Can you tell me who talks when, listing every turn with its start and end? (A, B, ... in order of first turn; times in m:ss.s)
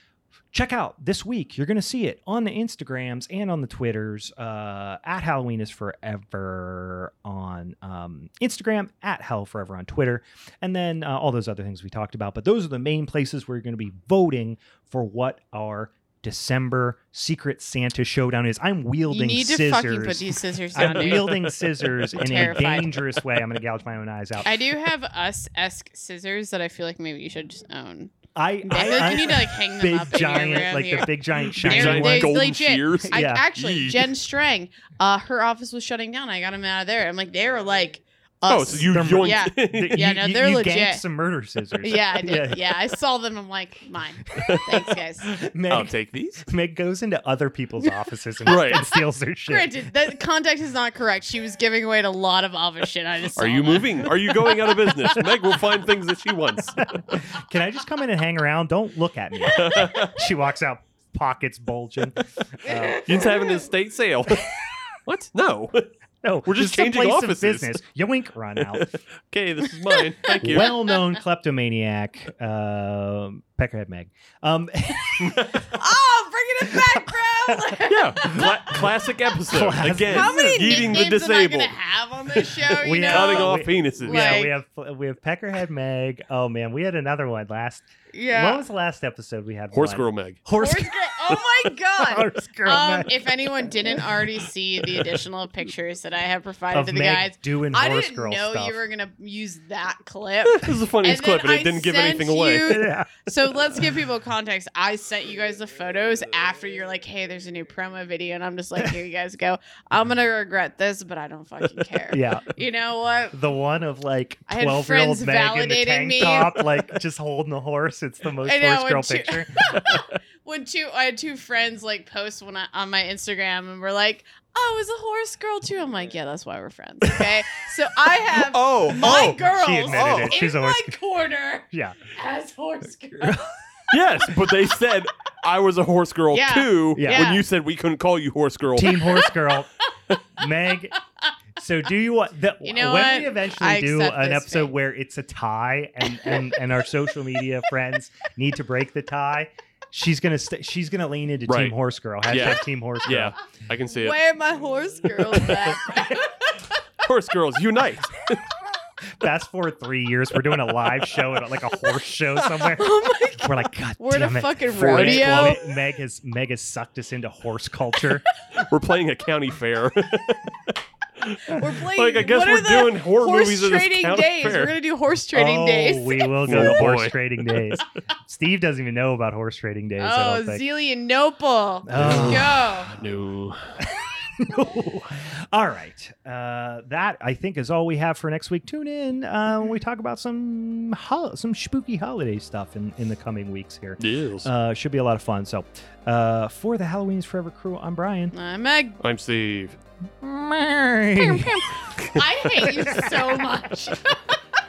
0:00.5-0:24.7 A
0:19.1-0:21.5 B
0:20.8-0:22.6 C
0:22.1-0:23.1 B
0:24.4-0:28.1 B
0:28.3-0:32.4 A
0:28.6-0:41.0 B
0:31.5-0:34.1 C
0:33.1-0:33.5 A
0:38.5-0:40.0 C
0:38.7-0:42.8 A
0:41.8-0:45.4 B
0:44.4-0:44.7 C
0:45.3-0:49.9 A
0:45.7-0:46.5 C
0:48.4-0:48.8 C
0:48.5-0:55.2 B
0:53.4-0:56.9 C
0:56.8-1:03.2 A
0:59.4-1:00.3 C
1:02.6-1:03.5 B
1:03.0-1:05.9 C
1:06.2-1:08.9 A
1:06.4-1:07.7 C
1:08.6-1:10.8 C
1:09.9-1:11.0 B
1:10.4-1:15.6 A
1:15.2-1:15.6 C
1:15.7-1:18.8 B
1:16.6-1:18.9 A
1:17.9-1:21.7 C
1:19.5-1:21.1 A
1:20.0-1:24.5 B
1:22.6-1:30.9 A
1:23.0-1:24.4 C
1:28.1-1:28.6 B
1:29.7-1:30.4 C
1:30.5-1:53.4 B
1:32.0-1:34.2 A
1:36.7-1:38.8 A
1:40.5-1:42.8 C
1:42.7-1:43.1 A
1:52.1-1:52.5 A
1:53.3-2:00.0 A
1:54.5-1:56.9 B
1:58.4-2:13.5 B
2:07.0-2:07.3 C
2:08.3-2:10.4 C
2:08.9-2:10.9 A
2:11.7-2:12.0 A
2:13.2-2:13.5 A
2:13.9-2:19.1 C
2:16.3-2:17.4 B
2:17.0-2:17.4 A
2:18.7-2:19.7 A
2:18.9-2:19.3 B
2:20.4-2:21.0 A
2:21.6-2:33.3 A
2:22.6-2:24.7 B
2:26.1-2:26.5 B
2:31.5-2:31.7 C
2:32.2-2:34.2 C
2:34.0-2:36.6 B
2:35.4-2:35.7 C
2:35.9-2:36.1 A
2:37.0-2:38.5 C
2:39.2-2:48.2 A
2:42.3-2:42.7 C
2:42.7-2:45.6 B
2:44.7-2:45.6 C
2:48.5-2:54.8 C
2:51.5-2:56.8 B
2:55.3-3:00.6 A
2:56.4-2:57.8 C
3:00.0-3:02.9 B
3:01.8-3:02.6 A
3:01.9-3:03.7 C
3:03.8-3:18.3 A
3:14.0-3:14.5 C
3:18.3-3:19.0 B
3:19.0-3:19.8 C
3:20.2-3:21.7 A
3:21.2-3:24.2 B
3:22.0-3:22.2 C
3:22.6-3:23.7 A